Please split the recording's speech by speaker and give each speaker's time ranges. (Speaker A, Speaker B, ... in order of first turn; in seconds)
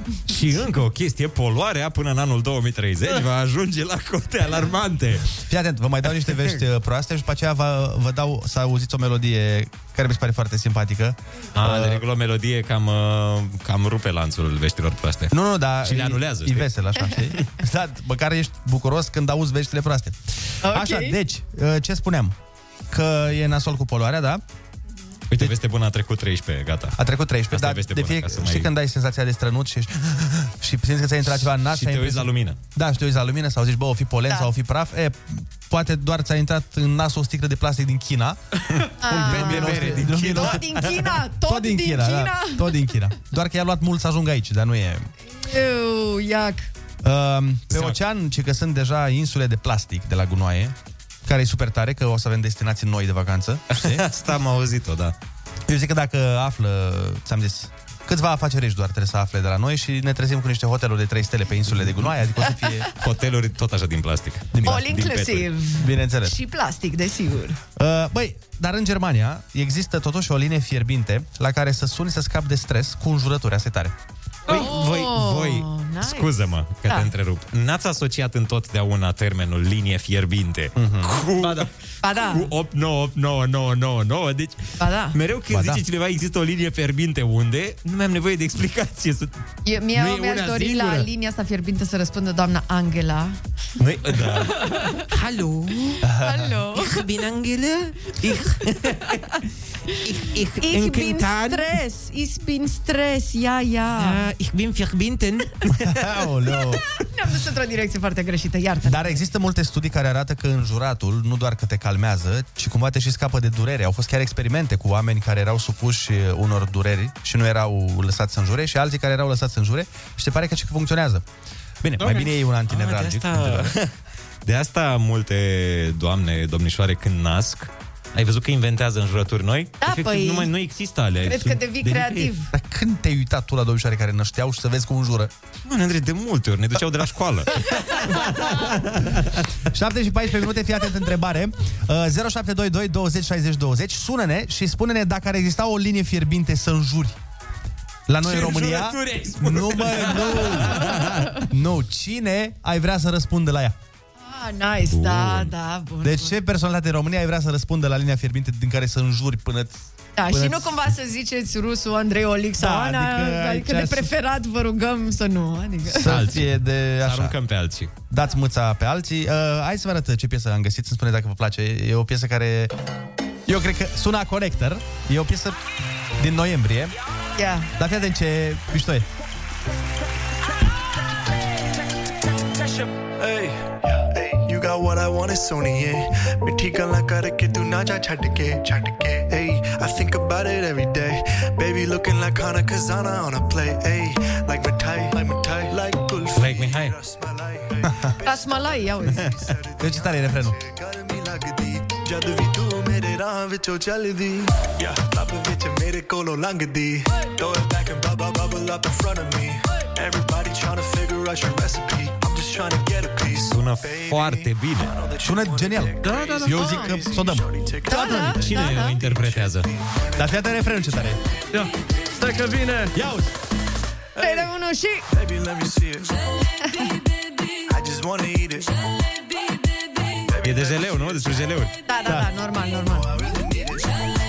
Speaker A: 0.3-5.3, 11.6-16.7, 25.3-27.0, 27.5-28.7, 31.4-32.6, 39.1-40.9, 47.7-48.0, 53.7-55.1, 63.0-65.5, 74.5-81.7, 82.3-89.3, 90.0-91.1, 93.8-96.0, 96.8-99.2, 100.0-101.7, 104.0-106.1, 122.0-123.9, 124.5-132.3, 135.7-139.4, 148.2-151.3, 154.9-155.5, 166.1-167.9, 196.4-196.9, 213.5-214.9, 218.3-219.7, 230.4-231.7
Speaker B: 5.5-12.0, 15.3-22.4, 22.9-24.4, 27.0-38.4, 39.0-40.8, 41.4-45.1, 47.0-54.1, 55.7-62.9, 64.5-64.9, 65.8-66.4, 67.8-73.9, 80.8-81.2, 85.5-85.8, 96.0-96.5, 105.8-106.8, 108.8-121.2, 121.8-123.8, 132.5-135.3, 139.7-147.2, 148.1-153.8, 156.0-160.8, 162.6-164.1, 165.9-167.3, 168.1-172.7, 173.5-175.6, 176.2-176.9, 177.8-179.1, 199.8-200.6, 215.2-218.3, 220.2-221.2, 222.9-223.3
Speaker C: 20.6-21.2, 39.0-42.7, 45.3-46.7, 64.7-67.6, 74.5-76.3, 82.0-82.5, 84.8-85.2, 89.7-93.4, 96.2-97.0, 100.6-104.2, 107.1-109.2, 129.8-130.5, 131.2-132.5, 154.2-156.4, 160.2-166.1, 177.4-177.7, 198.2-199.3, 216.5-216.9, 217.9-219.0, 224.2-225.1, 231.9-233.1
Speaker D: 81.4-81.7, 216.0-216.6, 221.5-222.9
Speaker E: 183.2-221.1, 225.1-226.2, 227.7-228.7, 230.2-231.5, 232.8-234.0